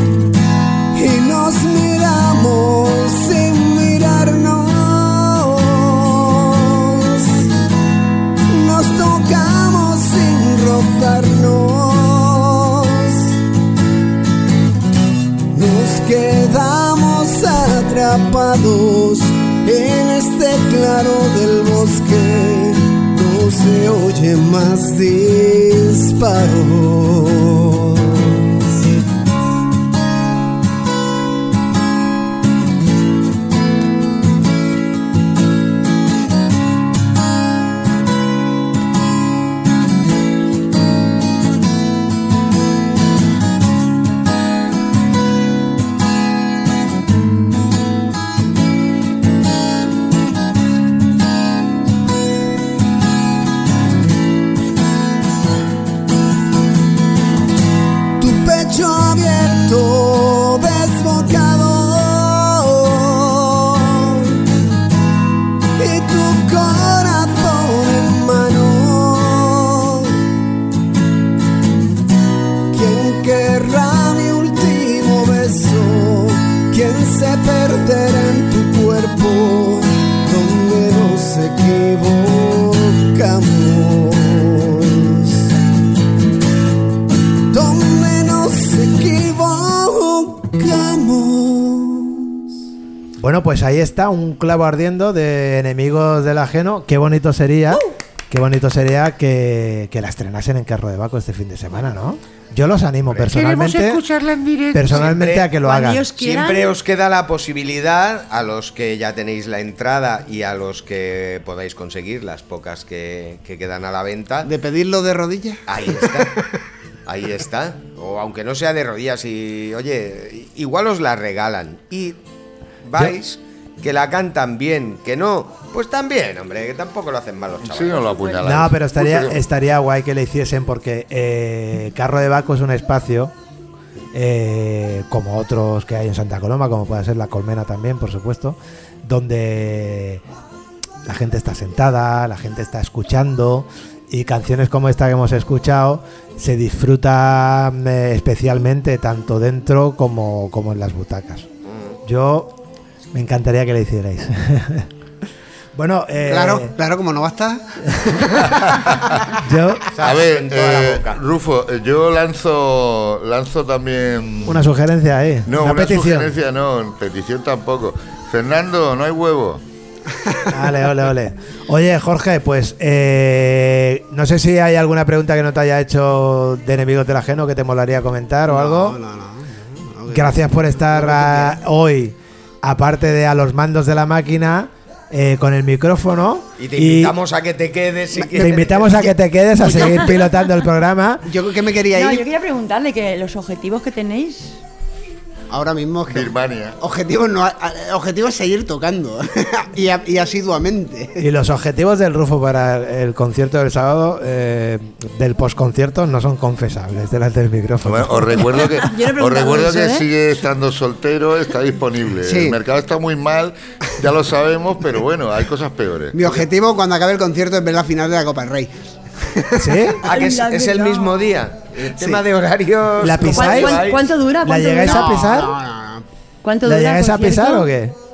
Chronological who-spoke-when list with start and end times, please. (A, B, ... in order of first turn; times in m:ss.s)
0:00.9-0:07.5 A
0:08.5-0:13.4 A
0:15.5-0:28.8 A
0:58.2-1:04.4 A
1:05.8-1:10.2 A
1:12.7-1:25.5 A
1:27.5-1:32.3 A
1:33.2-1:44.0 B
1:43.1-1:45.5 C
1:44.7-1:46.0 B
1:45.6-1:46.7 D
1:46.2-1:54.5 C
1:54.4-1:56.4 E
1:55.7-1:56.4 C
1:57.0-2:02.2 C
2:02.8-2:08.3 C
2:07.6-2:09.4 F
2:08.4-2:13.3 B
2:14.1-2:20.2 B
2:21.0-2:31.4 B
2:32.0-2:32.5 B
2:33.1-2:34.9 B
2:35.8-2:36.7 B
2:36.2-2:39.3 E
2:39.4-2:39.8 B
2:39.9-2:41.2 C
2:40.0-2:44.7 F
2:44.4-2:46.3 B
2:45.4-2:49.6 F
2:50.5-2:59.0 B
2:58.5-3:01.6 E
3:00.1-3:07.1 B
3:06.6-3:09.0 C
3:08.2-3:09.0 E
3:08.4-3:11.2 B
3:11.2-3:12.2 E
3:11.9-3:14.6 D
3:15.5-3:21.2 E
3:16.1-3:16.8 F
3:21.2-3:28.5 B
3:27.8-3:36.4 F
3:28.7-3:30.0 D
3:32.2-3:32.6 E
3:36.1-3:40.1 E
3:39.6-3:40.0 B
3:40.0-3:44.1 C
3:40.1-3:41.2 D
3:43.0-3:43.8 B
3:43.2-3:45.2 D
3:44.4-3:45.5 B
3:44.8-3:46.0 E
3:46.4-3:47.7 D
3:46.6-3:47.9 B